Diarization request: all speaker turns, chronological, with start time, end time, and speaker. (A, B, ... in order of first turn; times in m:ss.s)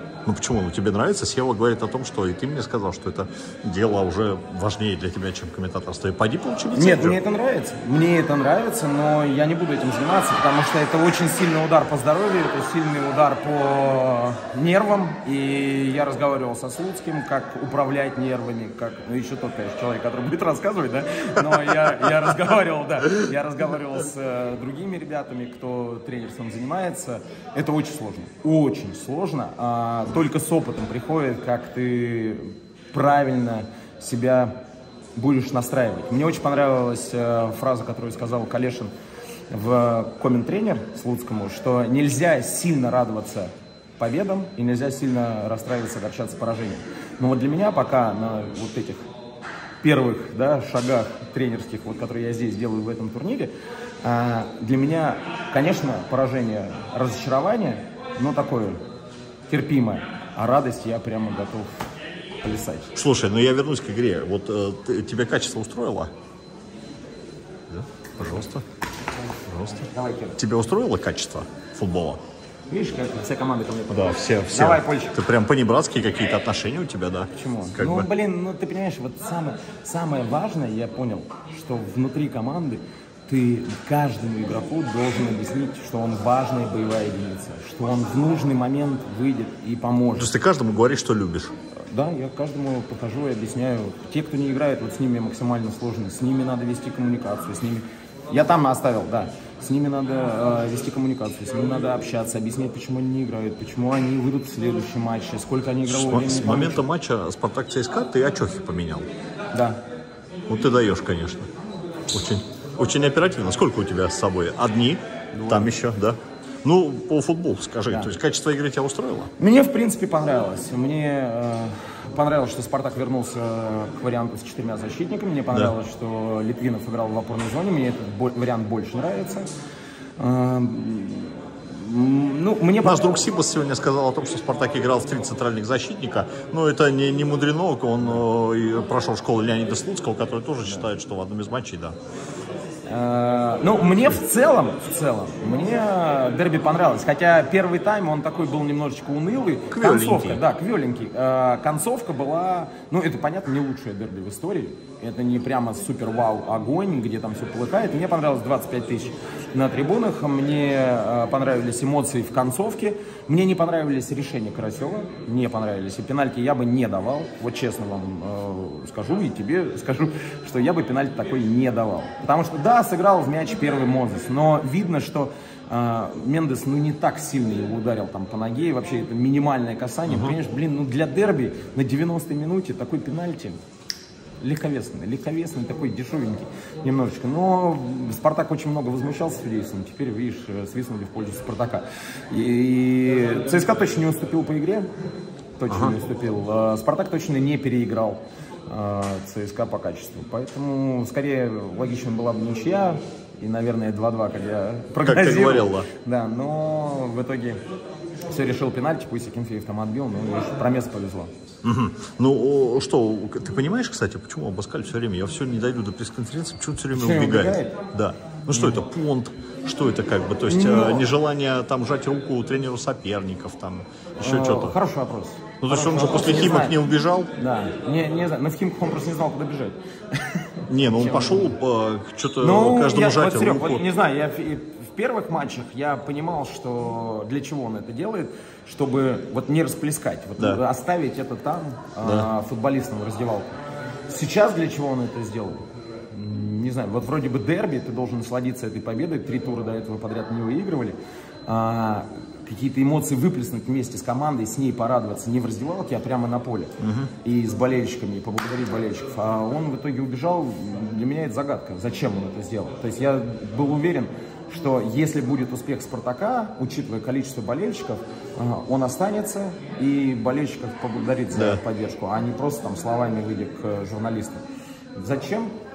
0:00.3-0:07.2 A
0:06.7-0:34.5 B
0:35.2-0:38.9 B
0:39.5-0:49.0 B
0:49.8-0:53.5 B
0:54.0-0:58.8 B
0:59.5-1:01.8 B
1:02.4-1:02.9 B
1:02.9-1:06.1 A
1:07.7-1:08.6 A
1:09.5-1:12.2 A
1:09.8-1:10.4 B
1:12.7-1:15.2 B
1:13.9-1:18.1 A
1:17.3-1:30.3 B
1:30.2-1:31.5 A
1:31.9-1:46.9 B
1:45.9-1:49.1 A
1:49.5-1:49.8 B
1:50.5-1:51.5 A
1:52.1-1:59.3 A
1:55.4-1:55.7 B
1:59.4-2:09.5 B
2:10.2-2:13.2 B
2:12.8-2:22.0 A
2:22.9-3:03.6 B
2:29.7-2:30.4 A
3:00.1-3:00.4 A
3:04.4-3:14.9 B
3:15.6-3:27.6 B
3:15.7-3:16.0 A
3:25.0-3:25.9 A
3:28.3-3:31.3 B
3:31.6-3:44.8 A
3:36.9-3:37.8 B
3:38.6-3:38.8 B
3:40.4-3:41.1 B
3:44.2-3:46.8 B
3:45.6-3:47.3 A
3:47.4-3:51.6 B
3:50.7-3:53.8 A
3:52.4-4:03.5 B
4:02.0-4:02.3 A
4:04.1-4:34.4 B
4:16.8-4:17.1 A
4:31.3-4:31.6 A
4:35.0-4:35.5 B